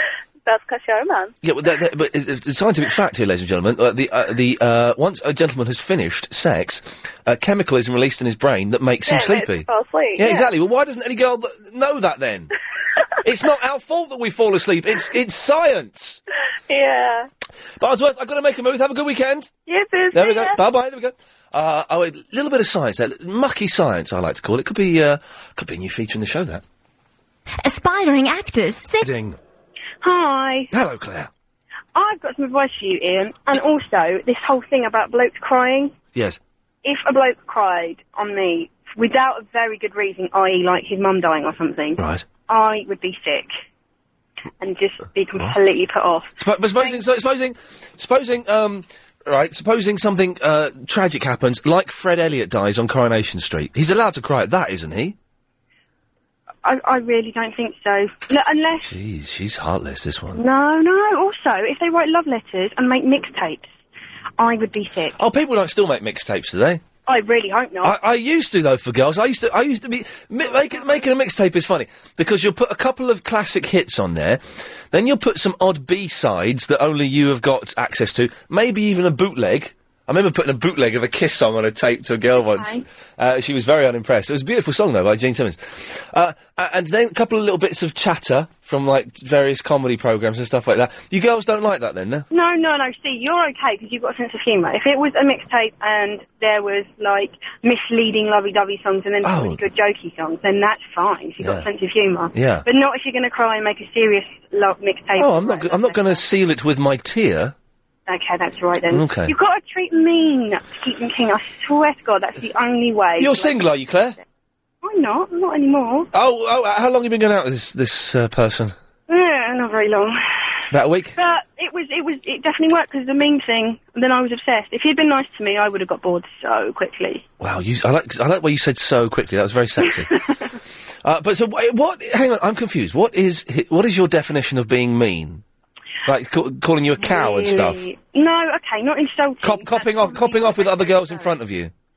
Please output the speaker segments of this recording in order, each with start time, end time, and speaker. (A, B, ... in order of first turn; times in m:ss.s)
0:00.4-0:01.3 A
0:01.4-0:12.5 B
0:09.0-0:10.5 A
0:13.2-0:16.2 B
0:16.7-0:17.3 A
0:17.8-0:19.5 B
0:19.7-0:20.6 A
0:20.1-0:26.6 B
0:29.0-0:29.4 B
0:30.0-0:30.7 C
0:30.7-0:31.3 B
0:31.9-0:35.9 C
0:36.1-0:36.4 B
0:36.8-0:43.6 C
0:42.0-0:42.2 B
0:44.6-0:47.0 C
0:46.4-0:55.2 B
0:56.6-0:58.9 C
0:58.8-1:00.4 B
1:00.3-1:03.7 C
1:04.4-1:05.2 C
1:05.2-1:06.8 B
1:07.0-1:08.0 C
1:07.8-1:32.2 B
1:22.4-1:22.8 C
1:32.3-1:46.2 C
1:39.2-1:39.6 B
1:41.4-1:41.7 B
1:42.3-1:42.6 B
1:45.2-1:47.5 B
1:48.1-1:53.6 C
1:48.9-1:49.3 B
1:53.2-1:54.2 B
1:54.8-1:56.1 C
1:56.1-1:58.7 B
1:59.1-2:00.2 C
2:00.7-2:01.2 B
2:01.2-2:07.2 C
2:07.4-2:10.1 B
2:09.8-2:10.1 C
2:11.0-2:15.4 B
2:16.0-2:17.8 B
2:17.0-2:21.3 C
2:19.4-2:21.7 B